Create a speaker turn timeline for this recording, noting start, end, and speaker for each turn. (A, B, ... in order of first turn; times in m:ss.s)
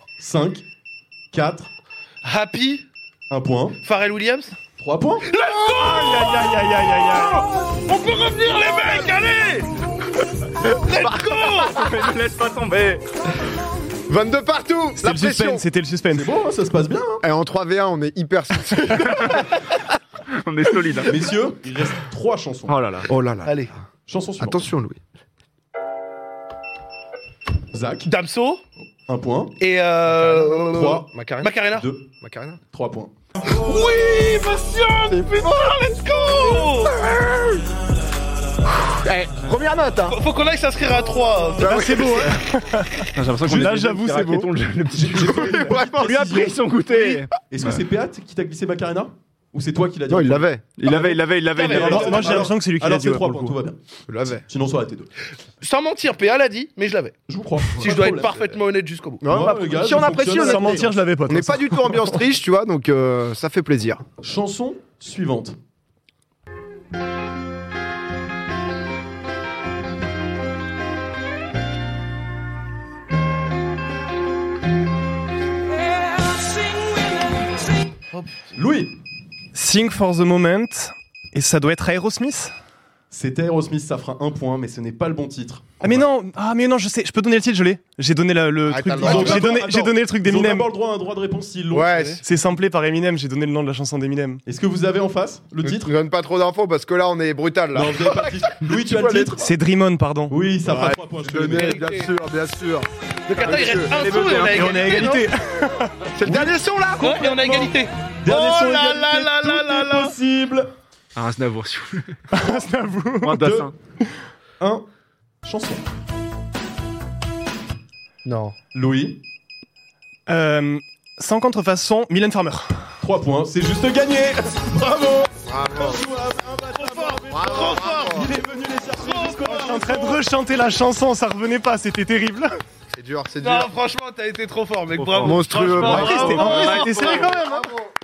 0:00.2-0:00.6 A
0:01.3-0:01.7 A
0:02.2-0:02.8 B
0:03.3-0:03.8 A
0:03.8-0:04.6 B
0:04.8-0:05.3 A
0:05.3-0:06.3 B
0:05.7-0:07.5 C
0:07.7-0:09.7 B
0:10.6-0:13.1 D
0:10.6-0:12.1 B
0:14.1-0:15.6 E
0:15.0-0:16.3 C
0:16.1-0:17.2 A
0:17.2-0:19.6 E
0:19.0-0:19.5 D
0:20.3-0:21.1 D
0:21.0-0:22.8 A
0:22.7-0:23.1 D
0:23.1-0:23.7 E
0:23.4-0:23.7 B
0:24.1-0:24.6 A
0:24.4-0:25.0 E
0:27.7-0:28.1 A
0:28.0-0:28.6 B
0:29.0-0:29.6 A
0:29.6-0:30.7 B
0:30.2-0:31.5 E
0:30.7-0:31.1 A
0:31.4-0:31.9 B
0:31.6-0:32.0 A
0:32.2-0:32.6 E
0:32.7-0:33.1 A
0:33.4-0:37.0 B
0:35.0-0:37.6 E
0:38.7-0:40.2 E
0:40.1-0:41.9 B
0:41.6-0:42.4 E
0:41.6-0:44.5 C
0:43.1-0:47.8 D
0:45.0-0:46.6 A
0:45.1-0:46.2 E
0:47.5-0:50.5 A
0:50.1-0:50.7 E
0:50.8-0:52.1 D
0:51.5-0:52.5 B
0:51.6-0:53.8 A
0:51.9-0:53.6 C
0:54.1-0:54.4 E
0:54.4-0:55.1 A
0:55.6-0:57.2 B
0:57.3-0:58.3 A
0:57.8-0:59.2 B
0:57.8-0:58.6 E
0:59.2-1:04.0 E
0:59.2-1:00.9 A
1:00.3-1:02.2 C
1:04.2-1:05.6 A
1:18.1-1:18.5 B
1:18.5-1:19.0 A
1:19.5-1:22.5 C
1:23.1-1:26.0 A
1:25.8-1:30.7 C
1:28.7-1:29.6 E
1:29.0-1:32.2 A
1:31.7-1:32.2 E
1:32.2-1:34.4 C
1:34.5-1:35.9 A
1:35.6-1:39.5 E
1:37.7-1:39.5 A
1:39.4-1:40.4 C
1:40.3-1:41.8 A
1:40.6-1:42.9 E
1:41.5-1:42.1 B
1:43.3-1:45.2 B
1:43.4-1:44.1 E
1:43.5-1:44.6 D
1:44.5-1:45.9 C
1:44.7-1:45.0 E
1:46.1-1:47.2 E
1:46.2-1:50.7 A
1:47.0-1:50.2 B
1:51.2-1:52.2 D
1:52.3-1:53.4 C
1:53.2-1:53.7 D
1:53.4-1:53.7 A
1:54.6-1:54.8 A
1:55.4-1:55.8 A
1:58.2-1:58.5 B
1:58.7-1:59.2 A
2:00.3-2:02.8 C
2:03.0-2:10.2 A
2:05.4-2:06.0 E
2:06.7-2:08.3 B
2:07.3-2:08.3 E
2:09.0-2:09.5 B
2:09.4-2:12.5 C
2:12.9-2:13.7 E
2:13.4-2:17.8 B
2:14.9-2:15.6 D
2:15.2-2:17.5 E
2:15.6-2:17.7 C
2:16.2-2:17.0 D